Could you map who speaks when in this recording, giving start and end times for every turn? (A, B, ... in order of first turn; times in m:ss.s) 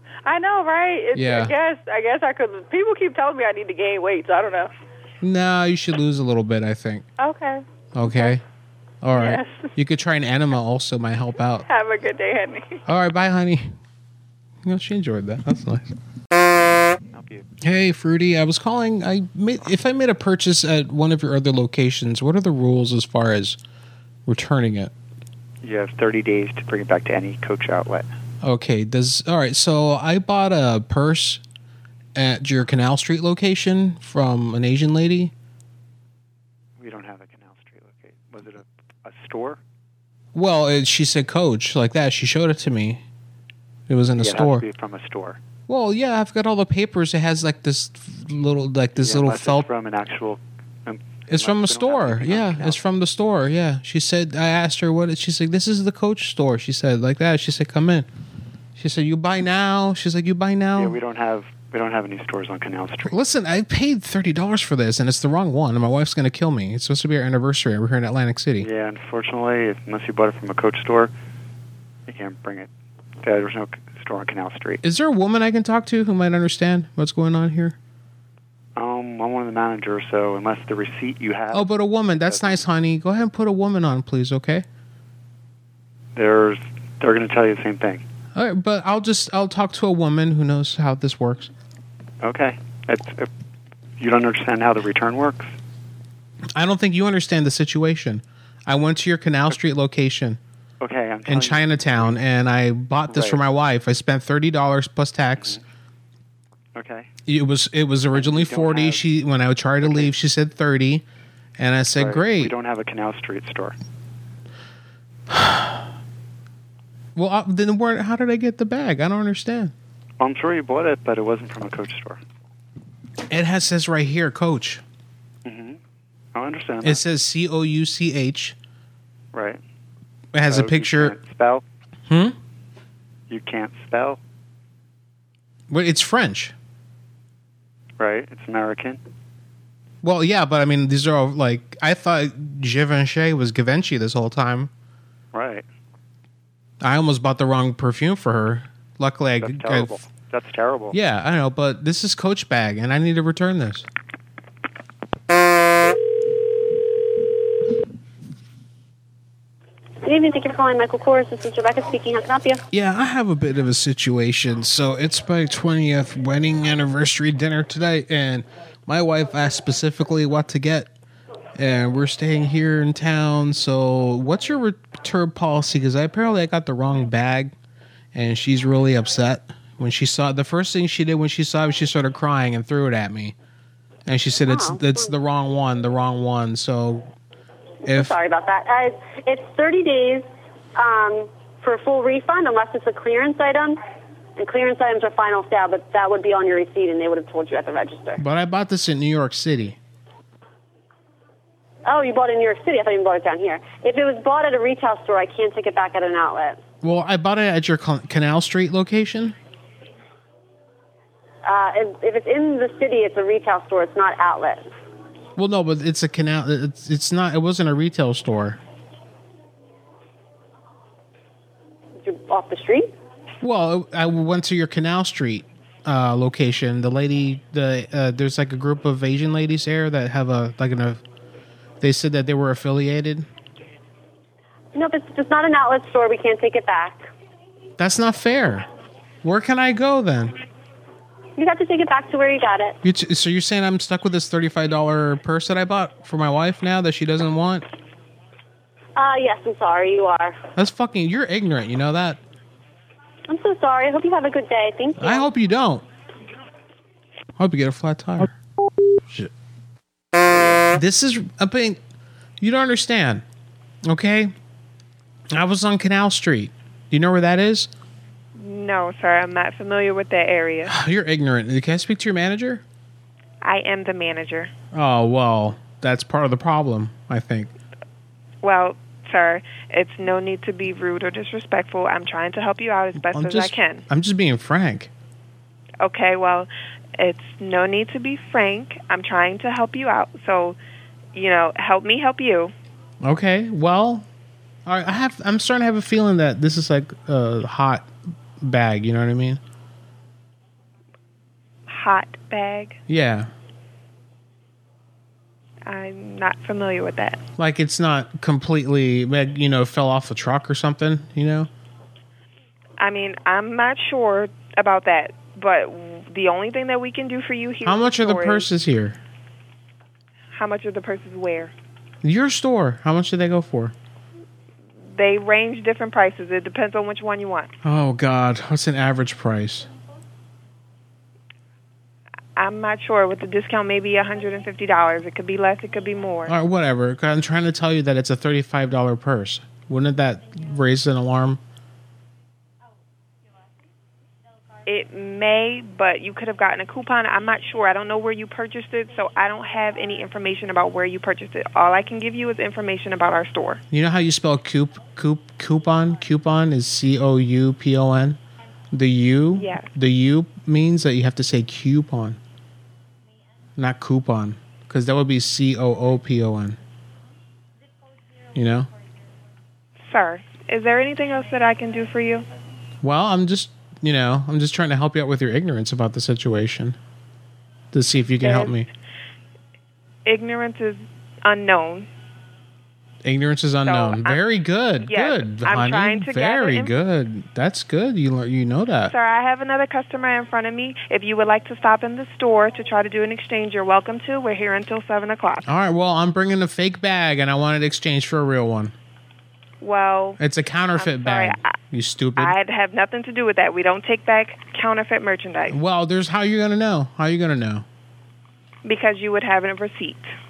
0:00.2-0:04.7 A
0:01.1-0:01.5 B
0:05.2-0:07.1 B
0:07.2-0:08.4 A
0:07.9-0:08.4 B
0:09.0-0:11.7 B
0:09.1-0:09.7 A
0:11.7-0:12.8 A
0:12.9-0:13.8 B
0:14.6-0:15.9 B
0:17.1-0:17.4 C
0:17.6-0:23.6 B
0:24.3-0:24.9 B
0:25.6-0:28.1 C
0:28.4-0:31.4 B
0:32.2-0:35.3 B
0:36.8-0:39.6 C
0:40.3-0:43.0 B
0:43.9-0:44.6 B
0:44.2-0:45.4 C
0:45.7-0:49.7 B
0:49.0-0:52.8 C
0:51.3-0:58.1 B
0:58.8-1:01.0 B
1:00.8-1:03.1 C
1:03.0-1:08.7 B
1:08.6-1:11.1 C
1:12.1-1:12.7 C
1:13.2-1:14.8 C
1:14.8-1:17.8 B
1:18.8-1:21.7 C
1:21.5-1:24.7 B
1:22.2-1:22.6 C
1:26.2-1:28.0 C
1:28.3-1:31.5 B
1:32.2-1:33.3 C
1:34.0-1:35.5 C
1:36.6-1:40.4 B
1:40.8-1:42.1 C
1:41.3-1:45.6 B
1:43.1-1:43.4 C
1:46.8-1:47.1 C
1:47.3-1:51.0 B
1:48.1-1:49.0 C
1:49.8-1:50.1 C
1:51.6-1:52.5 B
1:52.0-1:53.8 C
1:55.3-1:55.9 B
1:57.2-1:59.7 B
2:00.2-2:02.2 C
2:03.3-2:04.8 B
2:05.4-2:05.8 C
2:06.4-2:07.0 C
2:06.8-2:08.6 B
2:09.3-2:09.6 C
2:10.3-2:11.2 B
2:10.5-2:11.6 C
2:12.1-2:12.4 B
2:13.3-2:14.2 C
2:15.7-2:16.5 B
2:18.0-2:19.0 C
2:20.0-2:24.7 B
2:25.3-2:25.7 C
2:26.8-2:30.0 B
2:29.4-2:31.0 C
2:30.9-2:33.9 B
2:40.0-2:42.6 D
2:42.7-2:50.9 B
2:51.6-2:57.6 B
2:58.1-3:03.4 B
3:04.1-3:07.1 B
3:04.5-3:05.1 D
3:07.8-3:13.8 D
3:07.9-3:08.2 B
3:14.4-3:18.2 D
3:18.2-3:19.8 B
3:21.9-3:26.6 D
3:26.8-3:29.4 B
3:31.4-3:34.7 D
3:35.4-3:38.6 B
3:42.0-3:42.9 D
3:43.4-3:51.0 B
3:51.8-3:53.3 B
3:54.7-3:57.1 D
3:57.8-3:58.7 B
3:59.2-4:00.4 B
4:01.4-4:02.8 D
4:02.8-4:07.6 B
4:09.0-4:10.4 D
4:10.6-4:12.2 B
4:13.3-4:15.3 D
4:15.0-4:15.8 B
4:17.4-4:18.3 B
4:20.7-4:21.8 B
4:22.4-4:23.2 B
4:23.8-4:24.3 B
4:25.3-4:27.7 B
4:28.4-4:30.7 E
4:30.7-4:32.6 B
4:33.4-4:34.5 E
4:34.7-4:37.5 B
4:38.4-4:43.8 E
4:43.0-4:44.9 B
4:45.8-4:50.6 E
4:51.1-4:52.5 E
4:53.0-4:54.1 B
4:54.7-4:59.4 B
5:01.7-5:02.8 E
5:02.9-5:03.3 B
5:05.7-5:07.2 E
5:07.4-5:11.5 B
5:12.8-5:18.5 E
5:17.6-5:19.0 B
5:20.3-5:21.5 E
5:22.0-5:23.7 B
5:24.8-5:27.5 E
5:27.6-5:29.7 B
5:32.4-5:36.4 E
5:36.3-5:41.4 B
5:44.7-5:53.6 E
5:53.7-5:58.2 B
5:58.7-6:02.2 B
5:59.4-5:59.7 E
6:03.6-6:06.6 B
6:08.3-6:08.7 B
6:09.9-6:12.3 E
6:12.8-6:16.8 B
6:17.7-6:18.7 B
6:18.2-6:18.6 E
6:20.0-6:21.9 E
6:23.0-6:28.9 B
6:23.7-6:24.2 E
6:24.8-6:26.7 E
6:28.9-6:35.5 E
6:35.4-6:38.7 B
6:39.6-6:40.2 E
6:40.2-6:42.4 B
6:40.8-6:41.5 E
6:42.2-6:45.6 E
6:45.5-6:47.6 B
6:48.6-6:50.1 E